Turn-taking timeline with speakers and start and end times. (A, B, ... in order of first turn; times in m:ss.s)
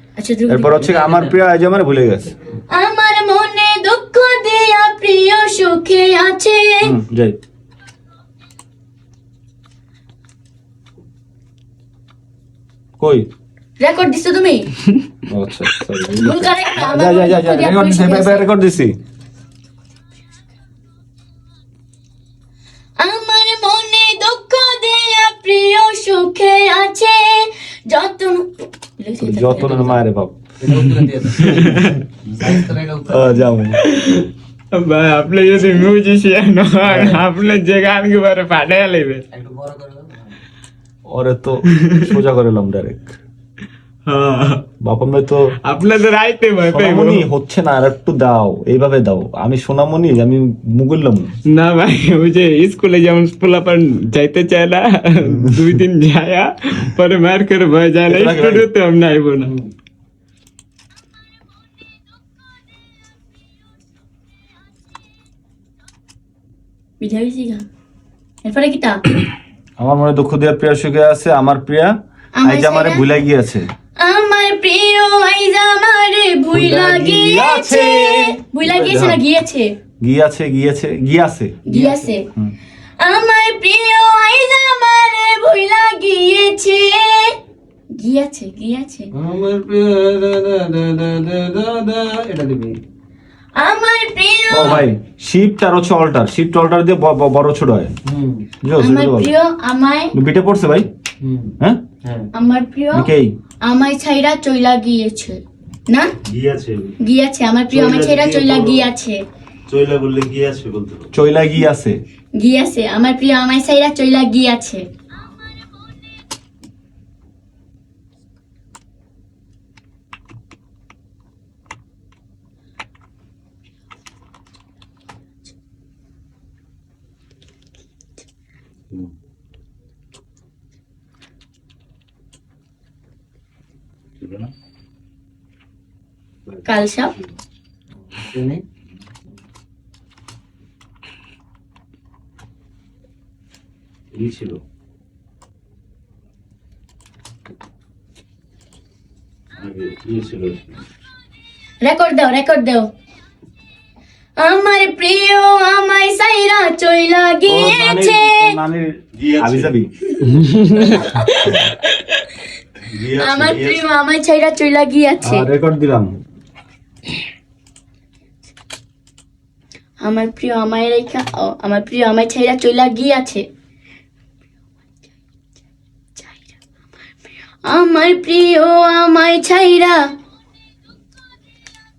0:00.2-0:00.8 A
0:00.5-0:02.3 B
0:00.8-0:01.3 C
0:02.7-0:07.0 A
0:06.8-0:07.4 B
0:13.0-0:13.3 B
0:13.8-0:14.7 A
0:15.3-0:19.0 B
0:16.2-0:18.5 A
0:23.0-0:29.9 A
0:29.2-0:30.4 B
0:29.5-0:30.0 C
0:30.6-0:33.4 C
0:31.4-0:32.0 D
0:33.1-0:33.8 B
0:33.8-0:39.2 D
0:39.3-0:40.4 C
0:41.1-0:43.2 B
0:44.1-0:44.6 D
0:44.8-0:45.5 B
0:45.6-0:47.3 D
0:46.7-0:51.3 B
0:51.5-0:59.5 D
0:55.2-0:55.6 B
0:58.1-0:58.7 B
1:07.0-1:07.6 A
1:08.4-1:09.0 A
1:09.8-1:13.7 B
1:12.4-1:13.0 A
1:14.0-1:19.7 A
1:16.5-1:19.2 B
1:20.0-1:21.6 B
1:21.6-1:22.3 A
1:21.7-1:22.1 C
1:23.0-1:27.4 A
1:27.9-1:29.1 A
1:29.1-1:32.8 C
1:33.5-1:34.9 A
1:34.5-1:37.9 B
1:34.6-1:34.8 C
1:38.1-1:38.5 C
1:38.6-1:39.3 B
1:38.8-1:40.1 A
1:40.1-1:40.9 B
1:41.2-1:42.3 C
1:42.3-1:43.1 A
1:42.9-1:43.3 B
1:43.6-1:46.1 A
1:46.3-1:46.9 E
1:47.0-1:49.2 A
1:47.7-1:48.8 E
1:49.7-1:51.1 E
1:51.1-1:52.0 B
1:52.4-1:54.8 A
2:16.6-2:17.1 A
2:18.0-2:18.6 C
2:29.6-2:30.6 E
2:31.8-2:32.9 A
2:34.4-2:38.6 A
2:37.5-2:39.9 B
2:39.2-2:39.7 E
2:40.2-2:42.0 A
2:42.9-2:43.8 E
2:43.0-2:45.4 A
2:45.2-2:46.2 B
2:50.0-2:53.4 A
2:56.2-2:56.5 A
2:57.6-3:00.0 A